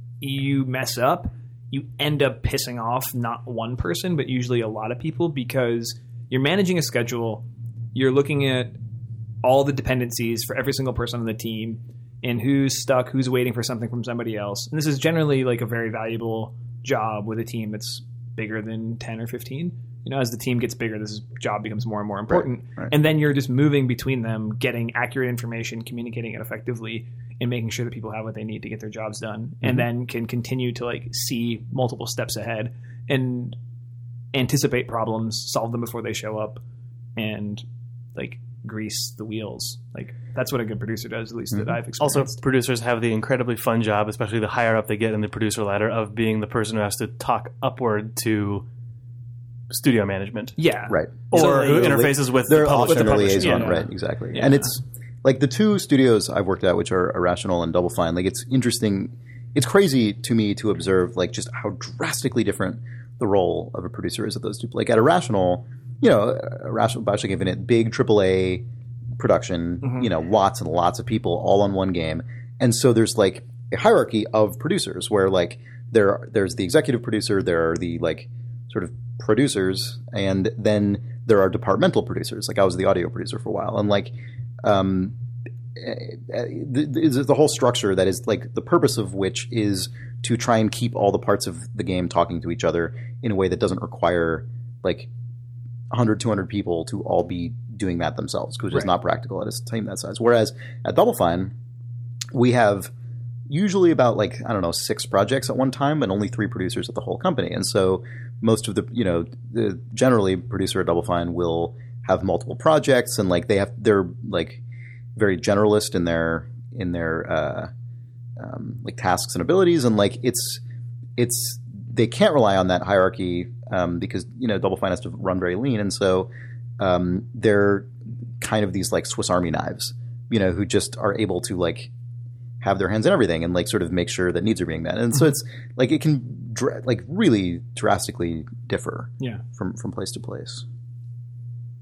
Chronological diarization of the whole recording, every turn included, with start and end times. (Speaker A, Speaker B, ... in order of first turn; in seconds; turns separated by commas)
Speaker A: 0.2-8.8, Speaker A: 9.4-33.6, Speaker B: 22.3-22.9, Speaker A: 34.3-36.6, Speaker A: 37.1-42.4, Speaker B: 41.5-41.8, Speaker C: 42.0-48.6, Speaker C: 49.7-50.6, Speaker A: 50.6-52.1, Speaker B: 50.9-68.7, Speaker C: 51.3-53.8, Speaker A: 52.7-54.7, Speaker B: 69.2-85.2, Speaker B: 85.7-95.1, Speaker B: 95.9-101.5, Speaker B: 102.3-102.9, Speaker B: 103.5-114.6, Speaker B: 115.2-117.7, Speaker B: 118.4-120.6, Speaker B: 121.2-131.9, Speaker B: 132.6-140.6